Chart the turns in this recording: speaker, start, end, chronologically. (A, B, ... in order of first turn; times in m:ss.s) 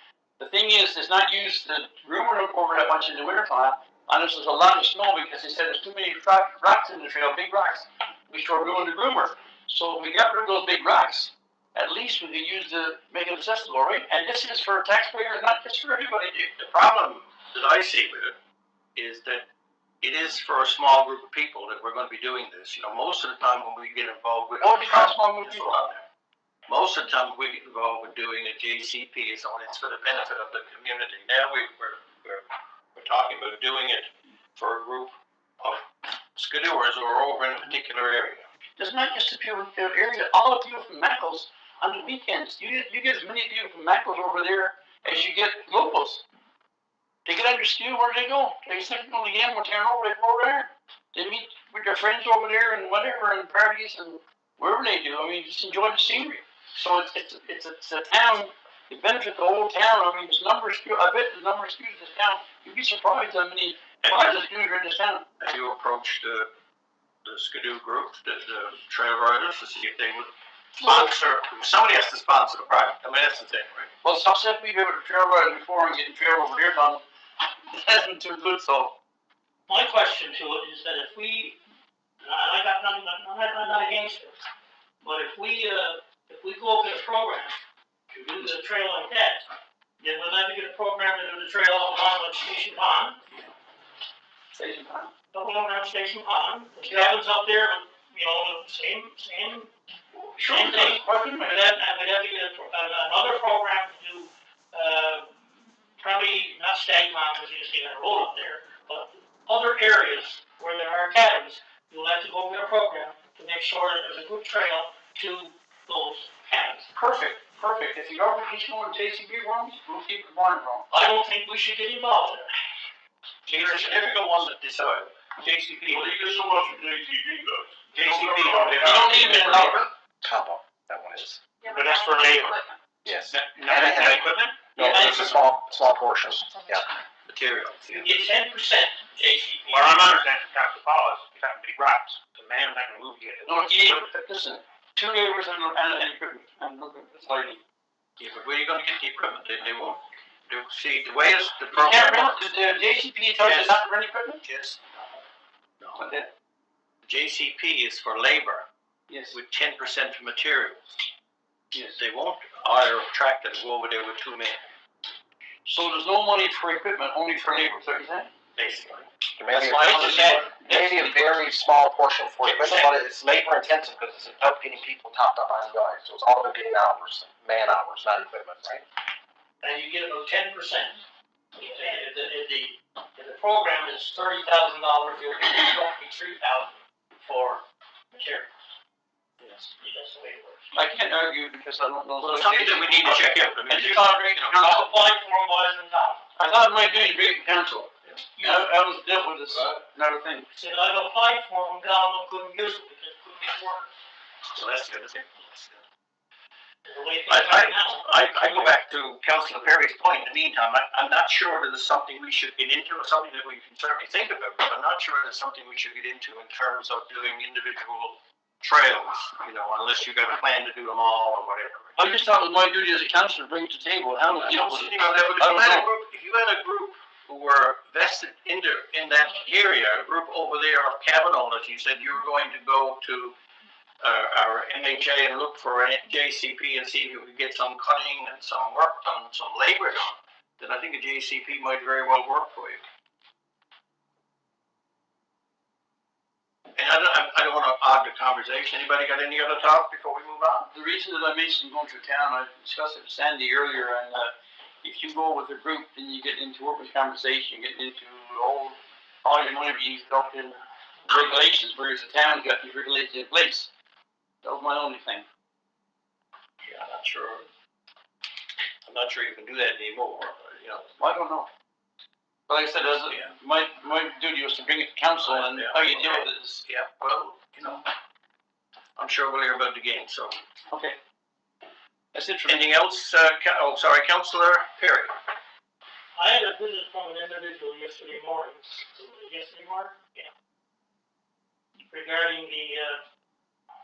0:00.4-0:16.5 A
0:16.6-0:18.4 B
0:19.0-0:19.5 B
0:20.0-0:26.0 B
0:24.6-0:25.7 A
0:26.7-0:38.5 B
0:38.8-0:46.2 A
0:47.2-1:05.3 A
1:04.0-1:04.4 B
1:05.4-1:06.5 B
1:07.2-1:13.9 B
1:14.0-1:17.0 A
1:17.7-1:19.0 A
1:19.7-1:21.6 C
1:22.2-1:24.4 C
1:25.0-1:27.6 C
1:28.1-1:29.5 C
1:30.0-1:33.2 C
1:34.5-1:35.1 A
1:35.3-1:39.7 C
1:40.4-1:45.3 C
1:40.4-1:41.4 A
1:46.0-1:56.9 C
1:57.0-2:00.9 A
2:00.9-2:02.5 C
2:03.5-2:09.7 B
2:03.7-2:04.0 C
2:05.9-2:09.6 D
2:08.8-2:09.9 A
2:09.5-2:11.4 E
2:11.6-2:12.7 D
2:13.0-2:16.9 E
2:13.3-2:14.7 D
2:14.8-2:15.2 A
2:17.2-2:18.1 B
2:17.9-2:19.7 C
2:19.6-2:23.6 D
2:23.5-2:27.6 A
2:28.2-2:32.5 B
2:31.7-2:34.4 A
2:33.4-2:33.8 B
2:34.4-2:34.8 B
2:36.0-2:36.3 A
2:37.0-2:38.7 B
2:39.1-2:39.4 A
2:39.3-2:40.9 B
2:42.0-2:44.6 B
2:45.7-2:48.3 A
2:48.6-2:50.5 B
2:49.4-2:58.8 E
2:49.6-2:51.3 A
2:52.4-2:52.9 B
2:59.6-3:01.0 C
3:01.6-3:07.6 C
3:08.1-3:08.5 C
3:09.8-3:10.7 C
3:10.8-3:13.1 A
3:12.2-3:14.6 B
3:13.7-3:14.9 A
3:14.6-3:16.2 C
3:16.4-3:20.5 A
3:18.1-3:18.6 B
3:20.5-3:23.9 C
3:24.5-3:25.8 B
3:26.9-3:28.1 C
3:27.3-3:42.0 B
3:42.0-3:45.9 A
3:44.3-3:53.3 B
3:54.0-4:02.8 B
4:06.8-4:10.7 B
4:10.7-4:23.7 A
4:24.4-4:25.2 A
4:26.6-4:27.5 B
4:28.9-4:31.0 B
4:31.0-4:31.5 A
4:32.5-4:36.6 A
4:35.2-4:37.9 B
4:39.0-4:40.4 B
4:40.7-4:41.0 A
4:42.1-4:42.6 A
4:42.5-4:45.1 B
4:46.2-4:50.3 C
4:51.9-4:53.0 C